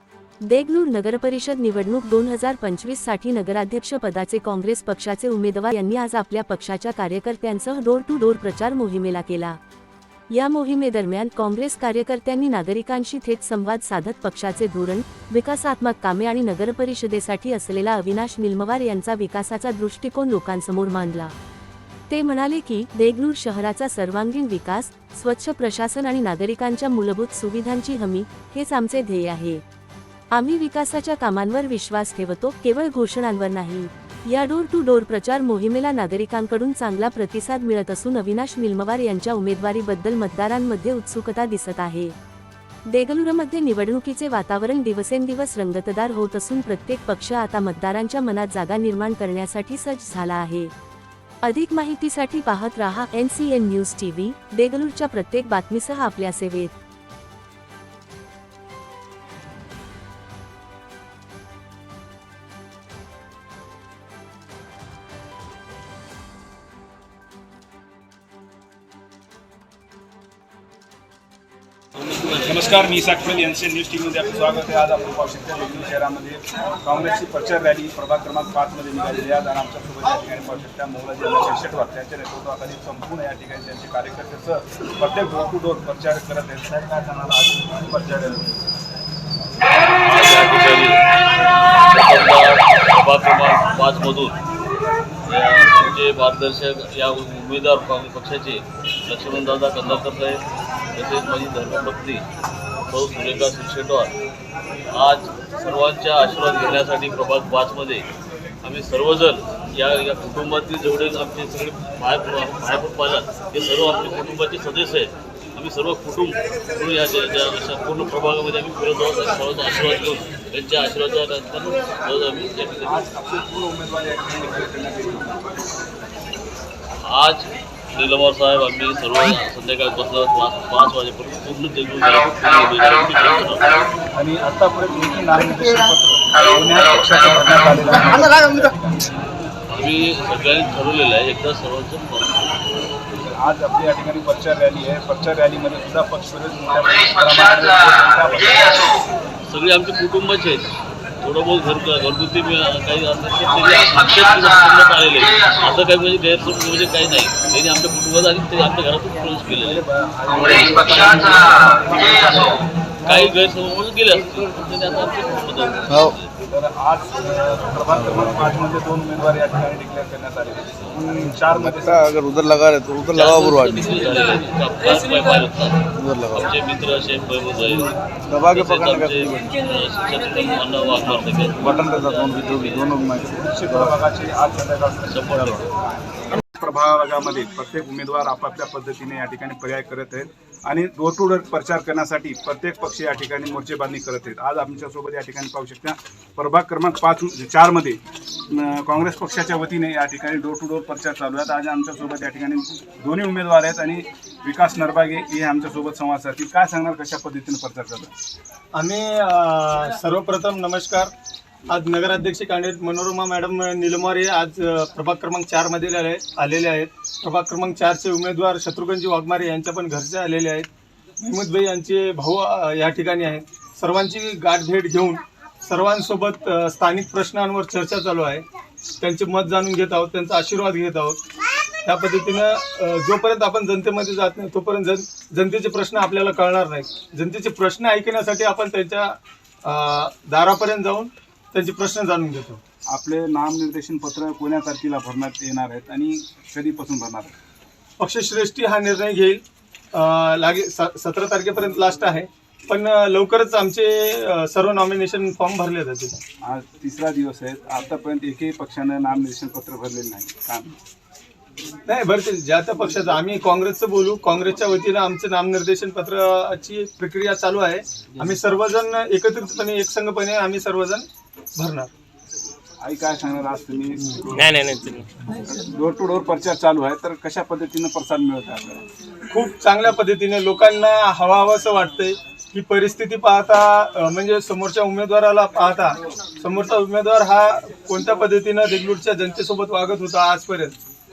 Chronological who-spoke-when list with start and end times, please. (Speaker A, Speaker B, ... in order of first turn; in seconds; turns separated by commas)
Speaker A: 0.4-9.6, Speaker A: 10.3-21.3, Speaker A: 22.1-29.6, Speaker A: 30.3-42.1, Speaker A: 42.9-50.7, Speaker A: 51.4-56.7, Speaker B: 72.3-88.6, Speaker C: 90.0-91.0, Speaker C: 91.9-94.4, Speaker C: 95.3-100.4, Speaker C: 100.9-102.2, Speaker C: 102.9-104.1, Speaker C: 104.9-108.0, Speaker C: 108.6-123.0, Speaker B: 122.8-125.7, Speaker C: 127.0-133.8, Speaker B: 134.1-139.1, Speaker C: 139.7-142.7, Speaker B: 143.2-149.0, Speaker C: 149.4-159.8, Speaker B: 159.6-162.6, Speaker C: 163.0-166.3, Speaker D: 165.9-166.1, Speaker B: 166.4-172.1, Speaker D: 167.9-168.5, Speaker D: 170.9-174.1, Speaker C: 173.1-177.9, Speaker D: 175.9-176.5, Speaker D: 178.3-179.5, Speaker C: 178.4-183.1, Speaker B: 181.6-182.3, Speaker D: 181.6-183.9, Speaker B: 183.1-208.1, Speaker C: 185.1-185.7, Speaker E: 208.7-211.1, Speaker E: 211.7-220.7, Speaker E: 221.2-228.4, Speaker E: 229.0-231.2, Speaker E: 231.8-242.6, Speaker B: 242.9-247.3, Speaker E: 248.0-256.1, Speaker B: 256.4-260.8, Speaker E: 261.9-271.9, Speaker B: 272.8-278.8, Speaker E: 279.3-290.8